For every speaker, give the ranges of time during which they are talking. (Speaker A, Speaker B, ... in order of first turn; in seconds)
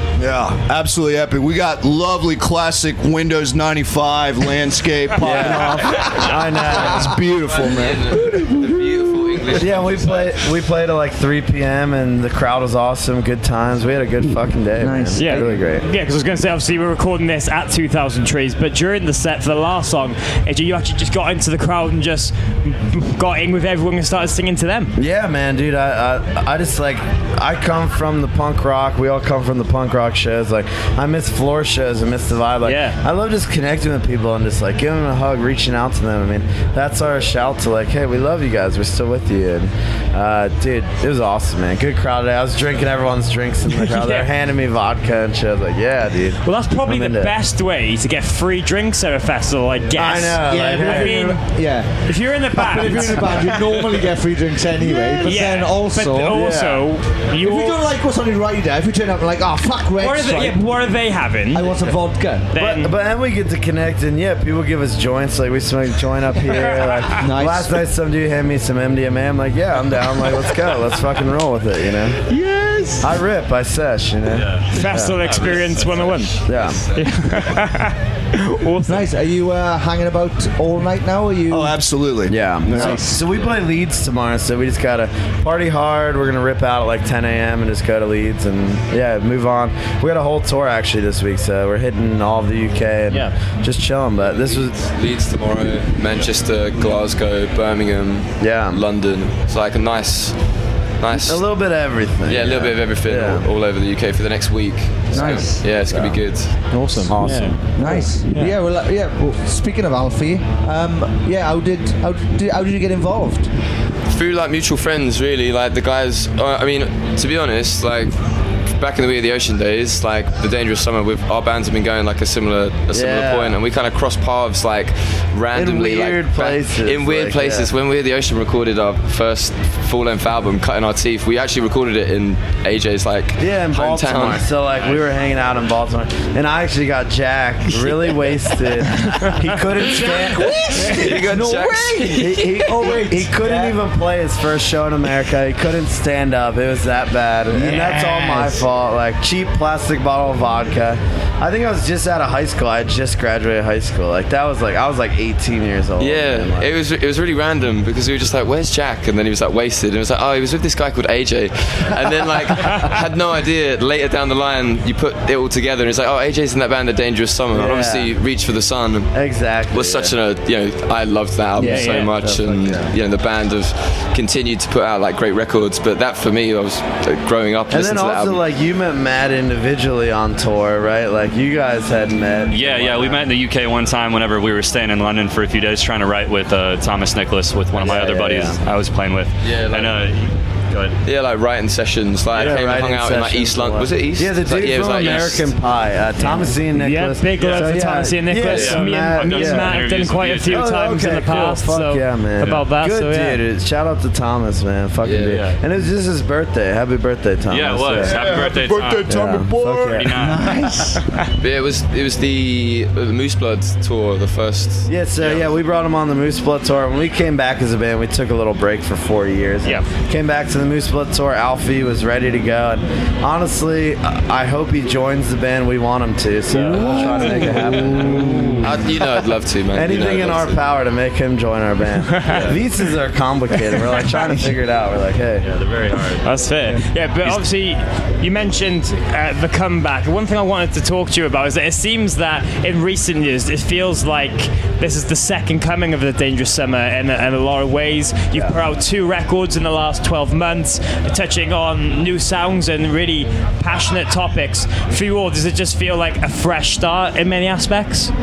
Speaker A: 0.2-8.2, 81.5-83.0, 208.0-210.1
Speaker B: 5.2-7.3, 9.6-15.8, 25.0-47.3, 49.9-51.2, 54.9-55.1, 56.3-56.9, 62.5-72.2, 73.0-75.2, 76.4-76.8, 82.3-94.8, 98.4-98.8, 101.1-103.5, 105.1-106.2, 107.0-108.1, 122.9-123.6, 125.5-127.7, 133.4-141.0, 142.2-156.7, 167.5-168.1, 169.1-170.2, 172.2-172.9, 177.7-183.2, 187.7-188.6, 192.3-199.8, 200.5-208.4, 209.1-210.1, 214.9-229.0, 229.7-235.5, 248.3-248.6
Speaker C: 7.4-10.5, 75.1-77.1, 94.2-100.4, 101.0-101.4, 102.3-106.6, 114.1-118.2, 118.7-134.4, 140.5-143.0, 156.0-169.2, 169.7-178.4, 189.4-190.0, 191.0-195.5, 205.0-205.4, 211.4-215.4, 228.6-230.6
Speaker D: 8.1-9.4, 14.8-15.6, 50.4-56.6, 57.4-60.6, 61.5-62.5, 67.2-67.8, 78.8-81.8, 82.7-83.2, 105.1-105.6, 107.8-113.5, 139.8-143.8, 147.5-148.6, 171.6-171.9, 210.1-211.0
Speaker E: 15.2-24.9, 32.6-33.0, 43.7-44.2, 46.4-51.5, 52.0-53.8, 55.2-57.8, 60.0-61.9, 62.5-62.9, 74.7-76.4, 76.9-79.1, 93.1-93.3, 106.7-108.5, 171.6-172.1, 196.2-203.4, 226.6-228.7, 232.1-232.5, 236.2-258.1
Speaker F: 74.6-75.8, 182.5-191.0, 197.3-200.8, 205.3-205.6, 207.5-209.2, 209.9-210.6, 235.4-236.4